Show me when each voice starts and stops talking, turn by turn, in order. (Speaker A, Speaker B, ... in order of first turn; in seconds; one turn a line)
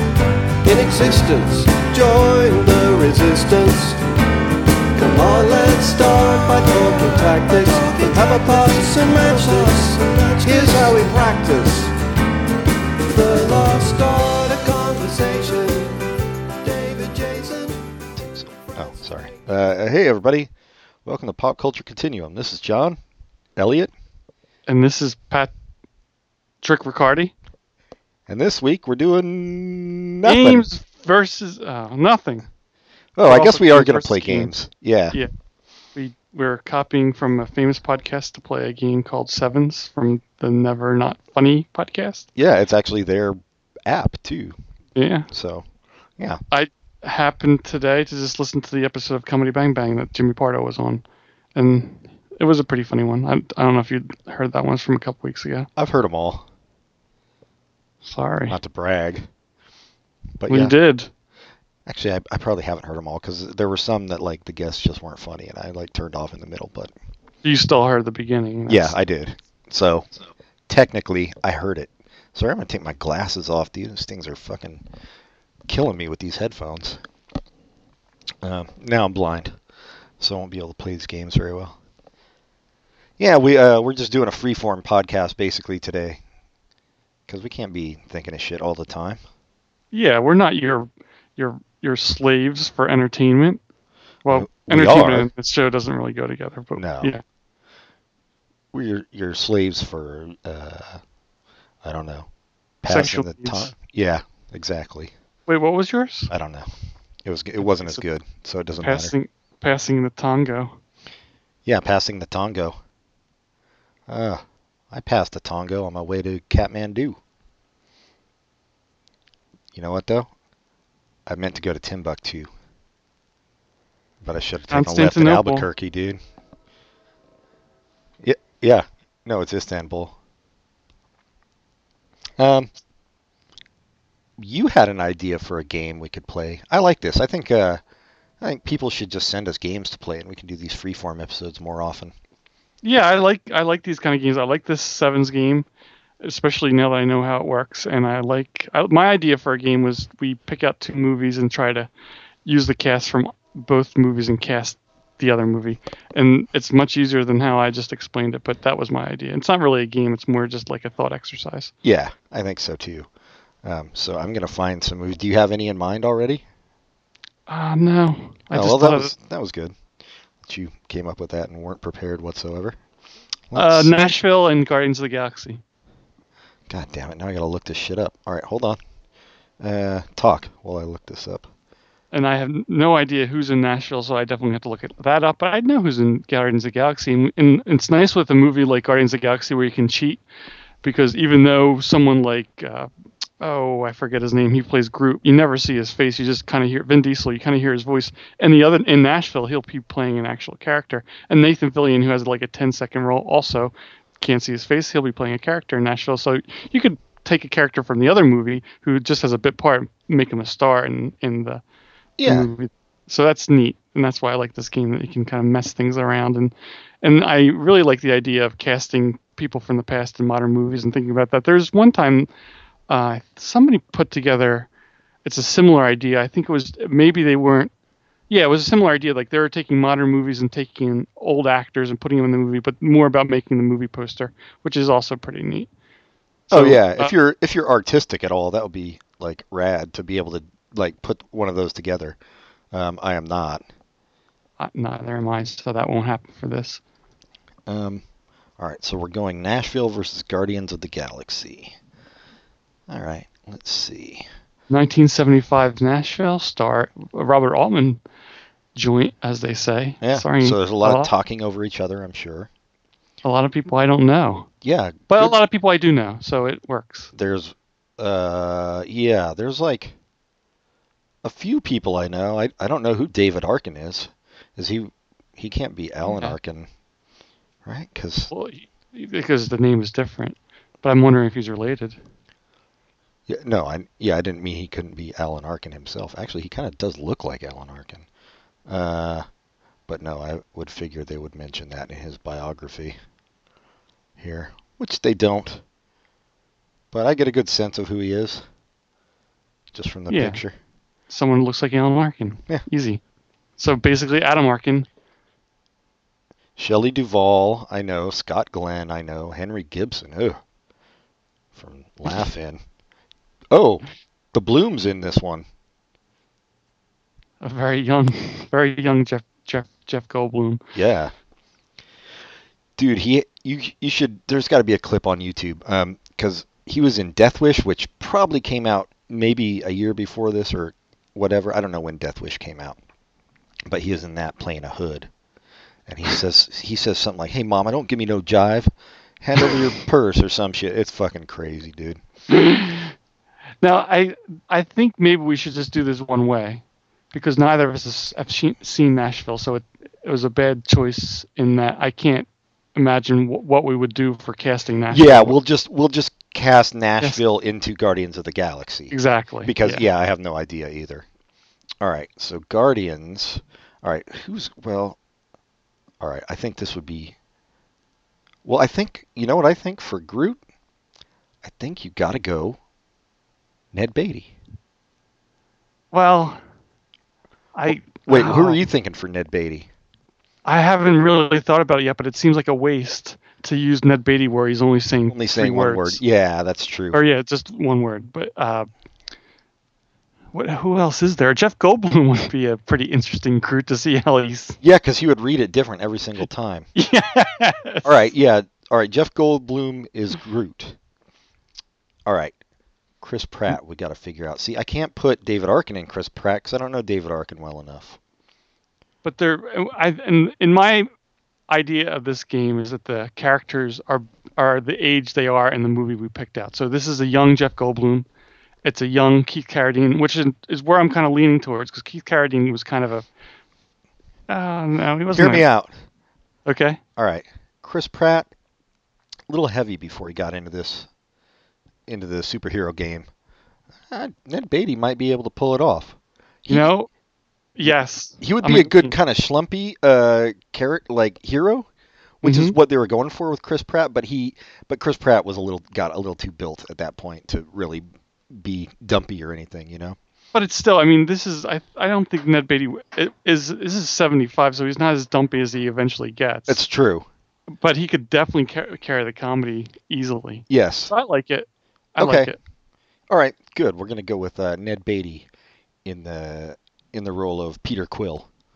Speaker A: 0.6-4.0
Speaker A: 5.0-11.9
Speaker A: 13.0-16.0
Speaker A: 16.6-17.8
Speaker B: 18.2-20.5
Speaker B: 21.1-23.0
Speaker B: 23.6-23.9
Speaker C: 24.7-25.5
Speaker C: 26.6-27.3
Speaker B: 28.3-30.7
Speaker C: 30.2-32.5
Speaker B: 33.2-35.2
Speaker C: 33.2-34.5
Speaker C: 36.0-42.3
Speaker B: 42.4-44.5
Speaker C: 45.0-45.3
Speaker B: 45.3-45.7
Speaker C: 46.5-51.0
Speaker C: 51.5-55.7
Speaker B: 55.8-56.5
Speaker C: 58.0-58.5
Speaker B: 58.5-59.3
Speaker B: 60.4-60.7
Speaker C: 60.5-61.1
Speaker B: 61.9-66.9
Speaker C: 67.4-69.0
Speaker B: 68.7-70.1
Speaker B: 70.7-74.8
Speaker B: 75.7-77.0
Speaker B: 78.4-79.6
Speaker B: 80.2-81.8
Speaker B: 83.2-86.2
Speaker B: 87.3-89.2
Speaker C: 89.9-93.6
Speaker C: 94.2-97.2
Speaker B: 94.3-95.3
Speaker B: 96.8-97.1
Speaker B: 98.7-101.0
Speaker B: 101.8-102.3
Speaker B: 102.8-105.1
Speaker C: 102.9-103.7
Speaker C: 105.5-106.3
Speaker B: 106.3-106.7
Speaker B: 107.2-109.1
Speaker C: 107.6-108.0
Speaker C: 108.8-110.8
Speaker B: 111.7-112.8
Speaker B: 114.1-117.2
Speaker B: 119.8-120.3
Speaker B: 121.3-122.5
Speaker B: 124.2-126.2
Speaker C: 124.7-125.7
Speaker B: 128.2-130.2
Speaker B: 132.4-132.7
Speaker B: 134.4-137.8
Speaker B: 138.4-142.1
Speaker C: 142.8-145.7
Speaker C: 146.2-151.9
Speaker C: 152.4-161.7
Speaker B: 161.8-163.1
Speaker B: 163.6-166.4
Speaker C: 167.5-169.1
Speaker B: 168.5-169.8
Speaker B: 170.4-172.8
Speaker B: 173.5-173.9
Speaker C: 173.5-175.6
Speaker B: 176.7-178.8
Speaker B: 179.6-181.5
Speaker C: 182.1-190.2
Speaker C: 190.8-211.6
Speaker B: 212.2-212.5
Speaker C: 212.2-222.3
Speaker C: 222.9-224.7
Speaker C: 225.2-227.7
Speaker C: 228.3-235.7
Speaker C: 236.5-237.1
Speaker B: 236.5-242.2
Speaker B: 242.7-243.6
Speaker C: 244.6-246.8
Speaker B: 247.7-248.0
Speaker B: 248.6-251.8
Speaker B: 252.9-254.3
Speaker C: 254.7-258.0
Speaker C: 258.8-261.1
Speaker B: 260.0-262.5
Speaker C: 263.2-264.5
Speaker B: 264.6-265.4
Speaker C: 265.1-267.1
Speaker B: 267.1-269.9
Speaker B: 271.2-276.7
Speaker C: 276.1-276.4
Speaker B: 277.6-278.3
Speaker C: 278.3-282.0
Speaker B: 283.3-288.1
Speaker B: 288.7-289.2
Speaker B: 289.9-293.0
Speaker B: 294.2-295.6
Speaker B: 296.9-298.4
Speaker B: 299.7-300.6
Speaker C: 300.1-300.4
Speaker C: 301.1-303.0
Speaker C: 303.6-304.9
Speaker B: 306.6-310.4
Speaker B: 311.5-312.6
Speaker B: 313.5-315.4
Speaker C: 317.4-320.6
Speaker B: 320.8-321.1
Speaker B: 322.8-332.8
Speaker B: 333.7-335.1
Speaker B: 335.9-342.0
Speaker C: 342.3-342.9
Speaker C: 343.6-355.4
Speaker B: 354.9-358.9
Speaker C: 358.9-359.8
Speaker B: 359.4-361.1
Speaker B: 361.8-365.0
Speaker B: 366.0-367.1
Speaker B: 368.4-370.4
Speaker B: 371.4-372.6
Speaker B: 373.7-374.3
Speaker C: 375.9-376.4
Speaker C: 377.6-378.7
Speaker B: 377.7-379.7
Speaker C: 380.4-386.0
Speaker B: 385.1-387.0
Speaker C: 386.9-388.7
Speaker C: 390.3-394.6
Speaker B: 394.6-396.7
Speaker C: 396.8-398.1
Speaker B: 397.8-400.8
Speaker B: 402.1-402.4
Speaker B: 403.0-408.0
Speaker C: 409.0-410.9
Speaker C: 411.5-418.1
Speaker C: 418.6-423.1
Speaker C: 424.3-425.4
Speaker B: 425.1-425.7
Speaker C: 426.4-426.8
Speaker B: 427.0-428.3
Speaker B: 429.3-430.9
Speaker B: 431.9-433.1
Speaker B: 433.9-436.7
Speaker C: 436.5-436.9
Speaker C: 437.6-438.9
Speaker B: 438.2-441.7
Speaker B: 442.2-450.0
Speaker C: 442.2-442.6
Speaker C: 450.3-456.6
Speaker B: 456.5-457.1
Speaker C: 457.6-462.4
Speaker B: 460.5-460.9
Speaker B: 462.0-462.3
Speaker B: 463.1-465.3
Speaker B: 465.8-468.3